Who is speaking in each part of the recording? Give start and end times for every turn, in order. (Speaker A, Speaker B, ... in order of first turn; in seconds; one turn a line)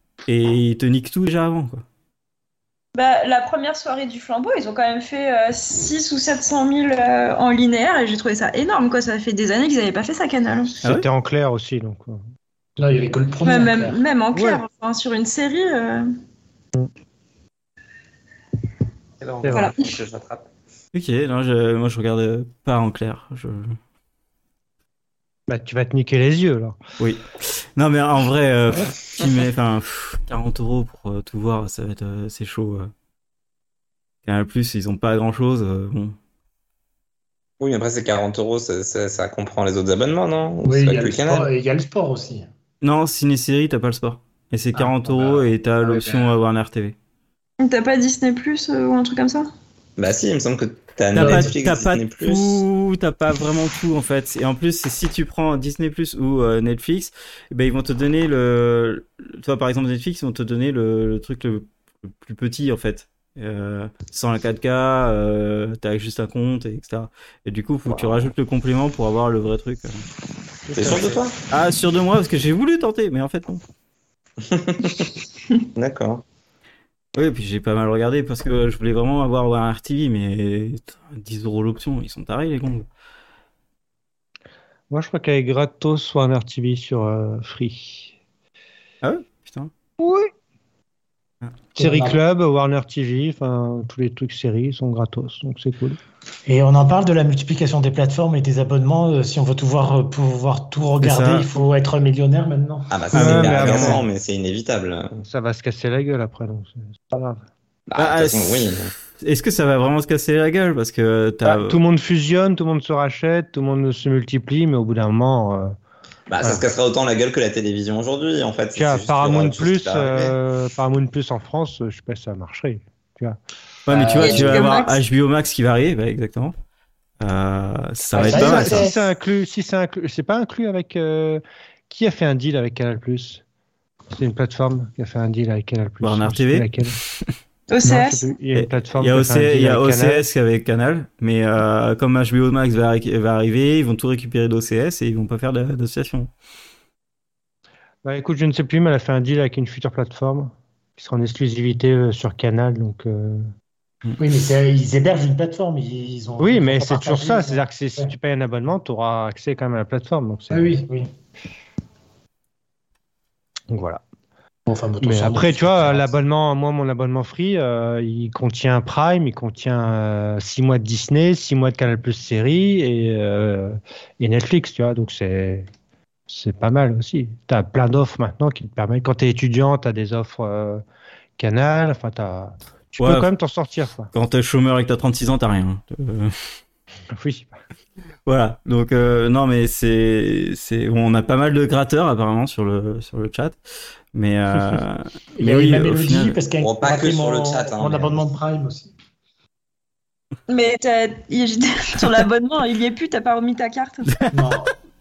Speaker A: 0.3-1.8
Speaker B: 2.9-10.7
Speaker C: 10.8-12.2
Speaker D: 12.8-14.0
Speaker B: 13.4-16.1
Speaker C: 14.3-14.6
Speaker E: 19.2-20.5
Speaker C: 19.4-19.7
Speaker B: 19.5-19.9
Speaker A: 20.9-23.8
Speaker C: 25.5-26.8
Speaker A: 27.0-32.9
Speaker A: 34.2-36.1
Speaker E: 37.6-41.5
Speaker D: 40.6-42.5
Speaker A: 42.8-47.0
Speaker D: 44.7-46.1
Speaker B: 47.6-49.5
Speaker E: 50.0-52.6
Speaker A: 51.1-70.0
Speaker D: 51.1-51.5
Speaker D: 70.7-71.2
Speaker E: 70.7-71.3
Speaker A: 71.5-73.6
Speaker E: 74.4-75.1
Speaker E: 75.7-76.2
Speaker A: 77.2-82.9
Speaker C: 84.9-88.1
Speaker A: 89.0-89.7
Speaker C: 90.0-90.3
Speaker C: 91.8-96.0
Speaker D: 91.8-92.2
Speaker D: 96.5-103.0
Speaker A: 101.0-101.5
Speaker E: 102.9-105.2
Speaker A: 103.1-104.0
Speaker C: 103.1-104.0
Speaker C: 105.2-107.4
Speaker E: 107.9-108.9
Speaker A: 108.0-111.8
Speaker C: 111.4-115.8
Speaker E: 116.3-120.3
Speaker C: 118.7-123.4
Speaker A: 123.8-126.5
Speaker D: 123.9-124.6
Speaker B: 124.2-125.0
Speaker A: 127.2-128.9
Speaker D: 128.1-129.0
Speaker C: 128.2-133.4
Speaker C: 134.1-137.0
Speaker A: 136.0-137.2
Speaker B: 137.7-138.2
Speaker C: 137.8-140.2
Speaker A: 138.5-146.3
Speaker C: 148.0-153.5
Speaker D: 154.2-158.1
Speaker C: 156.4-160.8
Speaker D: 160.5-161.1
Speaker C: 163.7-164.0
Speaker D: 164.7-166.2
Speaker C: 165.0-175.7
Speaker C: 176.3-180.8
Speaker C: 181.4-184.1
Speaker A: 183.0-183.3
Speaker A: 184.1-186.3
Speaker C: 187.1-187.6
Speaker A: 188.2-193.6
Speaker A: 194.1-196.4
Speaker D: 195.4-198.9
Speaker E: 196.6-198.2
Speaker B: 200.5-204.2
Speaker A: 204.1-204.4
Speaker D: 204.3-204.7